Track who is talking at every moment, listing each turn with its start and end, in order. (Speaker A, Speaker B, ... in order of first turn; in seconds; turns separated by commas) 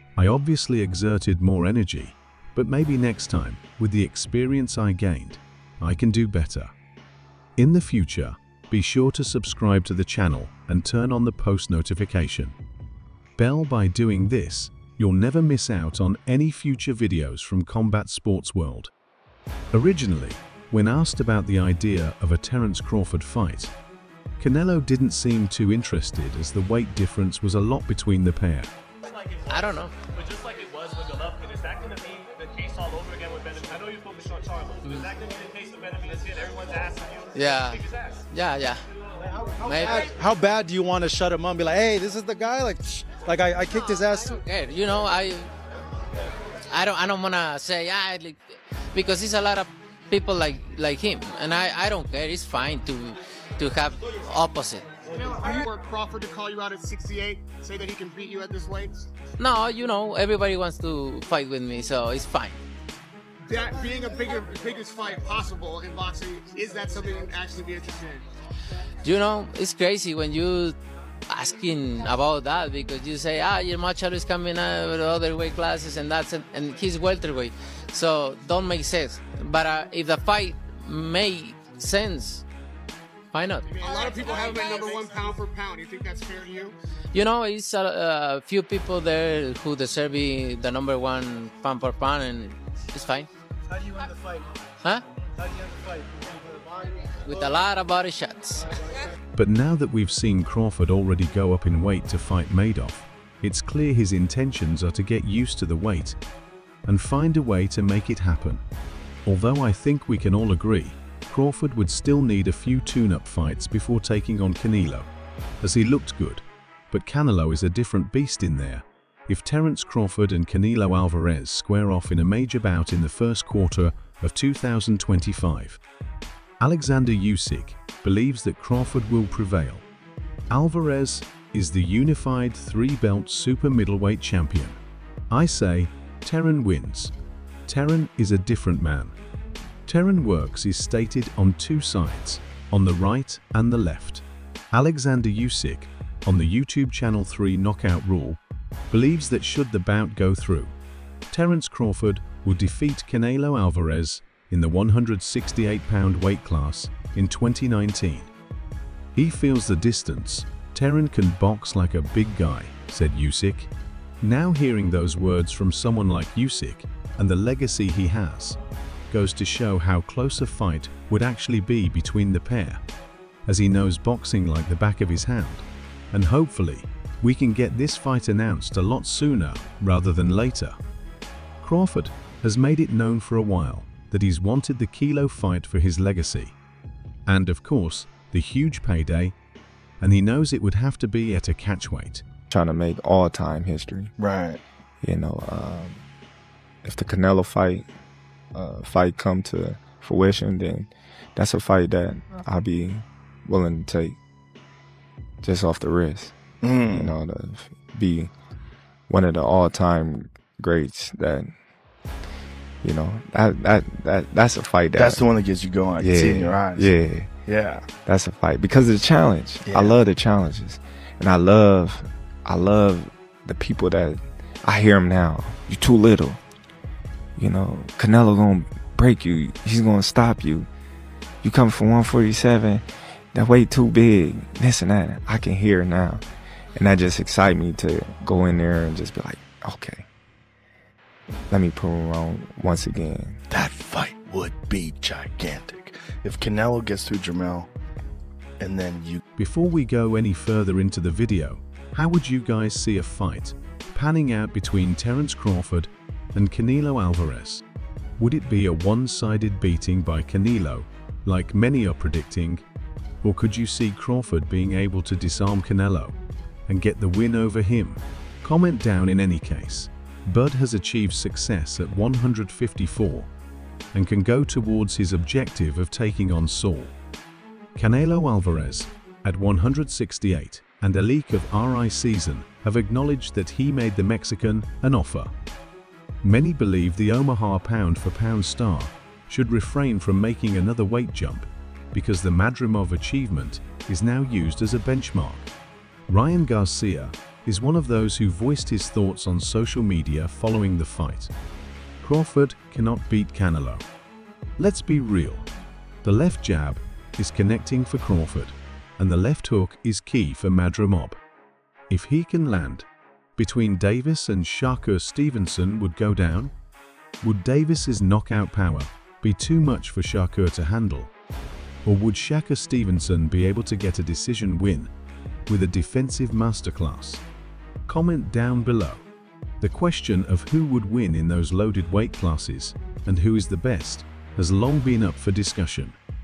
Speaker A: 0.2-6.7, Speaker A: 7.6-12.6, Speaker A: 13.4-18.9, Speaker A: 19.7-23.7, Speaker A: 24.4-28.7, Speaker B: 29.5-29.9, Speaker C: 30.1-38.2, Speaker B: 37.3-38.8, Speaker D: 39.2-44.3, Speaker B: 39.6-40.2, Speaker B: 43.7-45.5, Speaker B: 46.7-48.4, Speaker B: 48.9-54.9, Speaker E: 55.1-59.0, Speaker B: 59.4-62.6, Speaker E: 63.5-68.2, Speaker B: 69.0-70.8, Speaker B: 71.3-82.5, Speaker B: 83.3-83.9, Speaker E: 83.8-86.8, Speaker B: 87.1-93.3, Speaker D: 93.7-94.5, Speaker D: 95.4-97.0, Speaker B: 97.2-98.7, Speaker A: 99.3-106.2, Speaker A: 106.9-108.6, Speaker A: 109.3-115.1, Speaker A: 115.6-125.8, Speaker A: 126.6-129.9, Speaker A: 130.5-137.1, Speaker A: 137.7-139.2, Speaker A: 139.9-150.8, Speaker A: 151.3-158.3, Speaker A: 159.1-168.6, Speaker A: 169.1-172.8, Speaker A: 173.5-180.8, Speaker A: 181.6-186.6, Speaker A: 187.3-189.3, Speaker A: 190.0-192.2, Speaker F: 192.5-194.1, Speaker G: 194.2-194.6, Speaker F: 195.0-196.0, Speaker F: 196.8-197.8, Speaker F: 198.5-204.2, Speaker F: 205.4-206.4, Speaker G: 206.6-207.2, Speaker F: 206.9-208.3, Speaker F: 209.1-211.5, Speaker F: 212.8-215.2, Speaker G: 215.0-216.9, Speaker F: 216.0-217.3, Speaker G: 217.5-217.9, Speaker F: 218.1-226.4, Speaker G: 219.7-220.0, Speaker F: 227.4-230.7, Speaker F: 231.4-236.2, Speaker F: 236.8-240.1, Speaker F: 241.5-243.4, Speaker G: 243.5-247.7, Speaker G: 248.6-249.2, Speaker A: 249.4-257.6, Speaker A: 258.2-262.6, Speaker A: 263.2-266.2, Speaker A: 266.7-273.3, Speaker A: 273.9-276.9, Speaker A: 277.8-285.3, Speaker A: 286.2-295.5, Speaker A: 296.1-301.3, Speaker A: 302.0-303.8, Speaker A: 304.6-305.5, Speaker A: 306.0-311.2, Speaker A: 311.9-316.5, Speaker A: 317.2-321.1, Speaker A: 321.9-324.9, Speaker A: 325.5-327.2, Speaker A: 327.9-329.1, Speaker A: 329.6-336.0